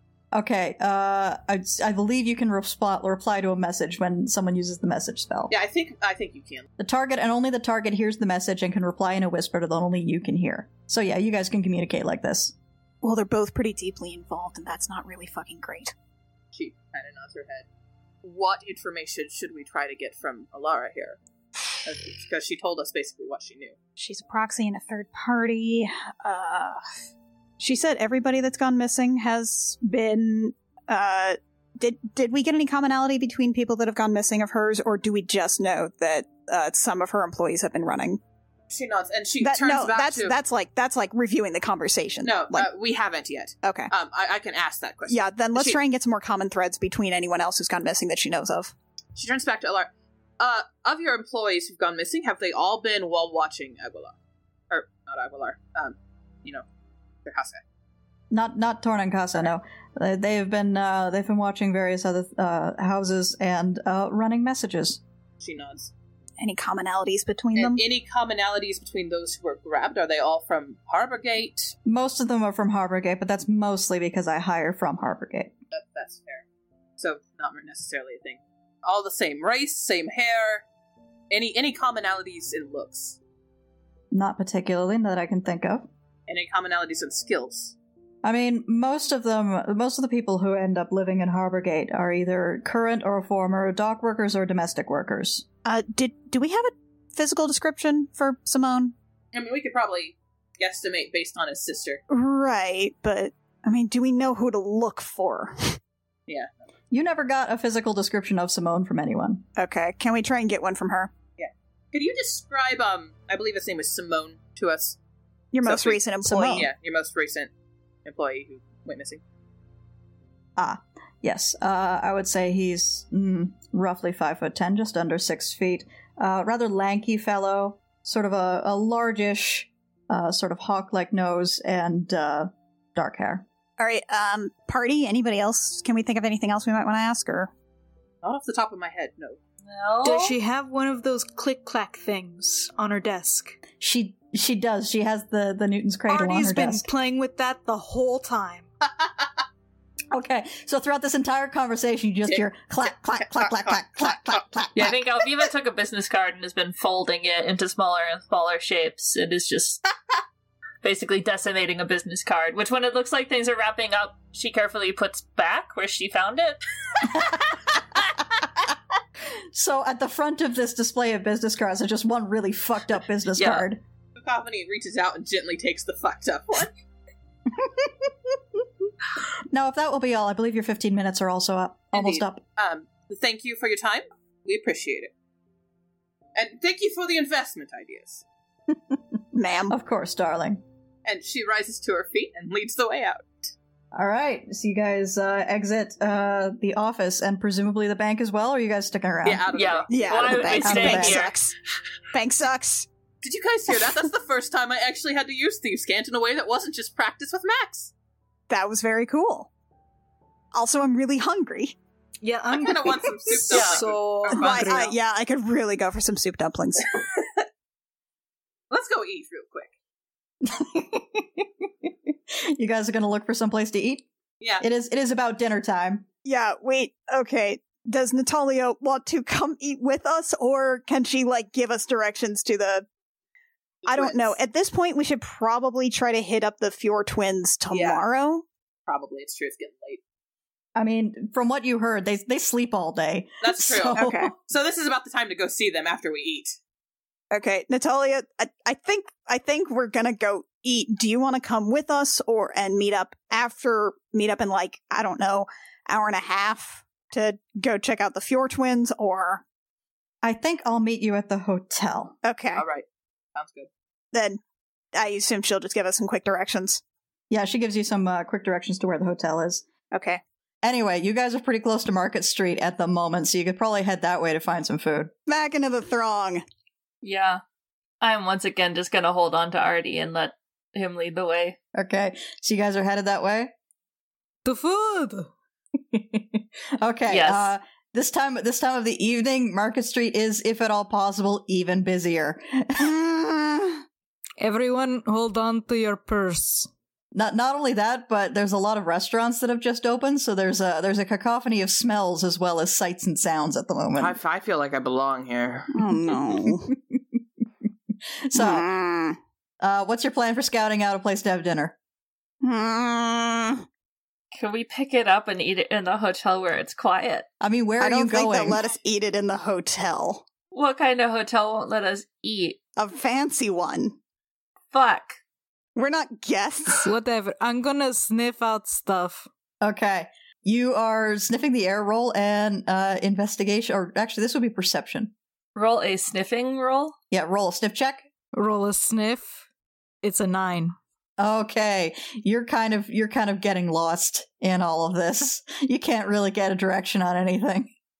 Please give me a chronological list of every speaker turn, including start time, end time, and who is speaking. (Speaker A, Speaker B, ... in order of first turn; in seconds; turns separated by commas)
Speaker A: 0.3-5.5, Speaker B: 5.5-6.7, Speaker A: 6.8-12.5, Speaker C: 13.0-15.9, Speaker B: 16.5-17.7, Speaker B: 18.2-21.2, Speaker B: 21.8-23.8, Speaker C: 24.0-26.8, Speaker C: 27.6-38.2, Speaker B: 38.7-40.3, Speaker C: 39.4-42.7, Speaker B: 42.2-45.8, Speaker C: 43.6-43.9, Speaker C: 45.1-48.7, Speaker B: 49.1-54.1, Speaker B: 54.7-56.6, Speaker B: 57.2-57.6, Speaker A: 58.3-65.0, Speaker B: 65.4-65.9, Speaker C: 66.4-67.8, Speaker B: 67.5-71.7, Speaker A: 71.8-75.5, Speaker B: 75.7-76.4, Speaker B: 77.0-80.6, Speaker B: 81.3-83.2, Speaker A: 84.1-85.9, Speaker B: 86.3-87.8, Speaker A: 88.2-95.4, Speaker C: 95.6-98.9, Speaker B: 99.3-102.0, Speaker C: 102.1-105.8, Speaker A: 106.9-109.4, Speaker C: 109.5-111.1, Speaker B: 111.4-115.0, Speaker C: 115.5-116.7, Speaker B: 115.6-117.5, Speaker B: 118.0-119.2, Speaker A: 120.6-133.4, Speaker C: 133.8-137.5, Speaker B: 138.2-139.4, Speaker D: 139.6-140.3, Speaker E: 140.0-143.6, Speaker A: 143.8-146.9, Speaker E: 146.1-148.7, Speaker A: 150.1-155.0, Speaker B: 153.1-154.4, Speaker D: 154.7-159.8, Speaker D: 160.8-167.1, Speaker A: 167.1-167.6, Speaker A: 169.5-173.8, Speaker D: 173.4-173.7, Speaker B: 174.2-176.7, Speaker A: 177.5-178.6, Speaker A: 179.5-182.4, Speaker B: 181.9-185.1, Speaker B: 186.3-188.2, Speaker A: 188.7-190.6, Speaker C: 189.3-189.7, Speaker B: 191.0-193.5, Speaker A: 193.9-199.4, Speaker B: 199.2-200.7, Speaker D: 199.5-201.3, Speaker C: 199.9-201.5, Speaker A: 200.6-201.2, Speaker C: 202.1-202.9, Speaker B: 203.2-207.9, Speaker C: 208.5-209.5, Speaker C: 210.5-211.8, Speaker E: 212.2-214.9, Speaker B: 212.5-214.9, Speaker D: 213.5-213.8, Speaker C: 214.3-217.0, Speaker B: 218.7-219.7, Speaker A: 220.4-224.1, Speaker A: 224.6-226.0, Speaker C: 226.2-232.8, Speaker B: 233.8-234.3, Speaker C: 233.8-238.4, Speaker B: 237.7-238.0, Speaker B: 238.9-240.0, Speaker A: 240.8-244.3, Speaker B: 243.4-246.5, Speaker C: 243.9-244.3, Speaker C: 247.3-259.4, Speaker A: 260.2-262.1, Speaker C: 262.2-262.6, Speaker B: 262.5-263.7, Speaker C: 264.1-264.4, Speaker C: 264.9-266.8, Speaker A: 267.3-269.6, Speaker C: 269.9-270.2, Speaker A: 270.6-275.1, Speaker C: 275.3-276.4, Speaker D: 277.0-277.4, Speaker D: 278.0-281.6, Speaker A: 281.7-283.5, Speaker E: 284.4-285.3, Speaker A: 285.9-293.1, Speaker D: 287.1-287.5, Speaker E: 294.4-296.7, Speaker A: 297.1-304.2, Speaker B: 303.9-305.7, Speaker C: 305.7-306.7, Speaker A: 306.4-307.0, Speaker A: 308.3-308.6, Speaker C: 308.3-309.2, Speaker A: 309.6-311.7, Speaker C: 312.4-313.6, Speaker D: 314.3-317.2, Speaker A: 317.4-318.6, Speaker C: 317.8-320.2, Speaker D: 320.5-322.6, Speaker C: 322.8-323.9, Speaker D: 324.7-325.2, Speaker C: 325.7-326.9, Speaker E: 326.8-329.3, Speaker A: 329.6-335.1, Speaker D: 335.5-336.9, Speaker A: 337.1-338.0, Speaker E: 338.3-339.4, Speaker E: 340.0-340.7, Speaker A: 341.2-347.7